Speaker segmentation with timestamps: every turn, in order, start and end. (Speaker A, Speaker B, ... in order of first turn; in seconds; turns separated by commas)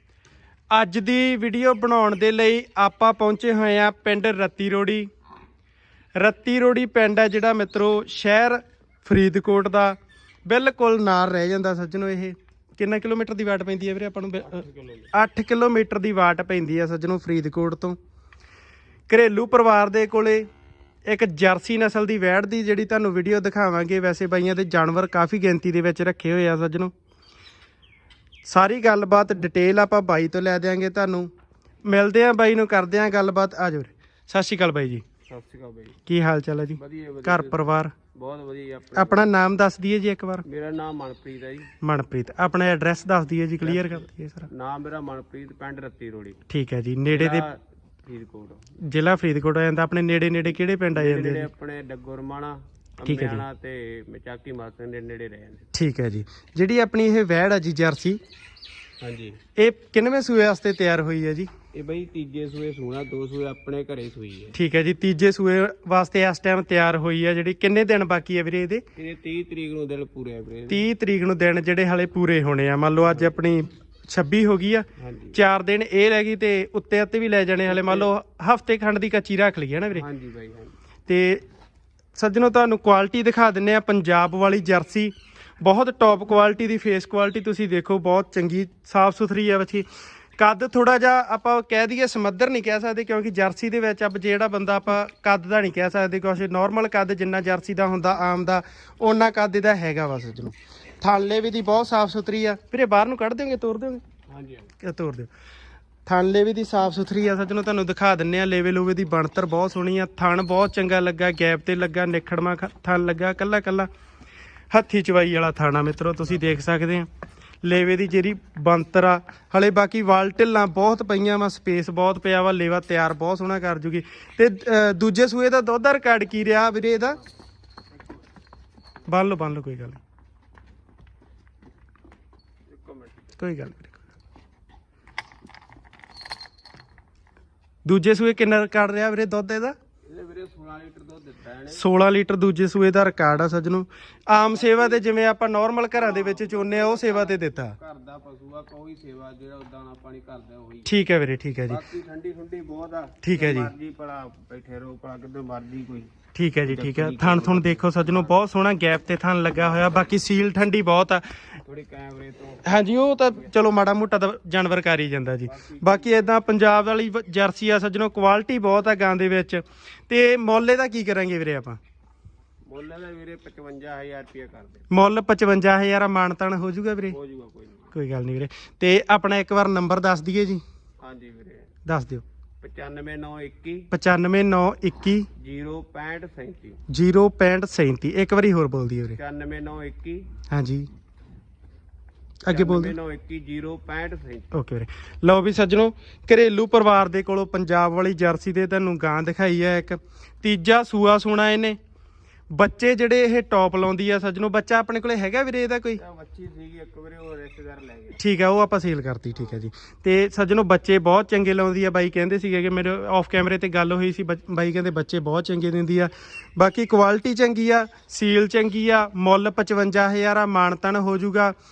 Speaker A: 0.7-5.1, Speaker A: 6.2-18.0, Speaker B: 14.4-15.1, Speaker A: 19.1-20.5, Speaker A: 21.1-26.9, Speaker A: 28.4-31.3, Speaker A: 31.8-35.0, Speaker B: 35.3-36.0, Speaker A: 36.1-37.9, Speaker B: 36.8-39.3, Speaker A: 38.9-40.4, Speaker B: 40.4-41.7, Speaker A: 41.8-44.5, Speaker B: 43.6-46.4, Speaker A: 46.5-47.4, Speaker B: 47.1-48.7, Speaker A: 48.8-51.5, Speaker B: 50.9-55.7, Speaker A: 53.0-53.4, Speaker A: 55.7-58.2, Speaker B: 59.0-59.4, Speaker A: 59.5-61.5, Speaker B: 61.7-64.6, Speaker A: 64.5-68.8, Speaker B: 69.0-70.8, Speaker A: 70.7-80.0, Speaker B: 73.1-73.4, Speaker B: 75.0-75.4, Speaker B: 77.7-78.1, Speaker B: 79.9-80.7, Speaker A: 81.1-81.4, Speaker A: 82.2-89.8, Speaker A: 90.4-104.0, Speaker B: 104.3-104.7, Speaker A: 104.8-105.3, Speaker A: 106.0-113.9, Speaker A: 114.7-117.1, Speaker A: 117.6-127.2, Speaker A: 129.1-130.0, Speaker B: 132.7-133.3, Speaker A: 133.4-134.0, Speaker A: 137.8-139.7, Speaker B: 140.1-141.8, Speaker A: 141.7-147.8, Speaker B: 144.5-145.0, Speaker B: 145.9-150.9, Speaker A: 150.8-151.8, Speaker B: 151.7-156.1, Speaker A: 153.2-153.7, Speaker A: 156.3-161.2, Speaker B: 156.6-158.3, Speaker B: 161.6-162.7, Speaker A: 162.6-171.8, Speaker B: 165.4-166.2, Speaker B: 172.7-174.9, Speaker A: 174.9-177.2, Speaker B: 177.1-177.9, Speaker A: 177.9-180.6, Speaker B: 181.0-181.7, Speaker A: 181.8-182.2, Speaker B: 182.6-183.9, Speaker A: 183.9-185.3, Speaker B: 185.4-186.8, Speaker A: 186.9-189.2, Speaker B: 189.1-190.3, Speaker A: 190.5-190.9, Speaker A: 192.4-192.9, Speaker B: 192.5-194.5, Speaker A: 194.5-201.8, Speaker A: 202.5-206.0, Speaker B: 206.0-208.2, Speaker A: 208.2-221.5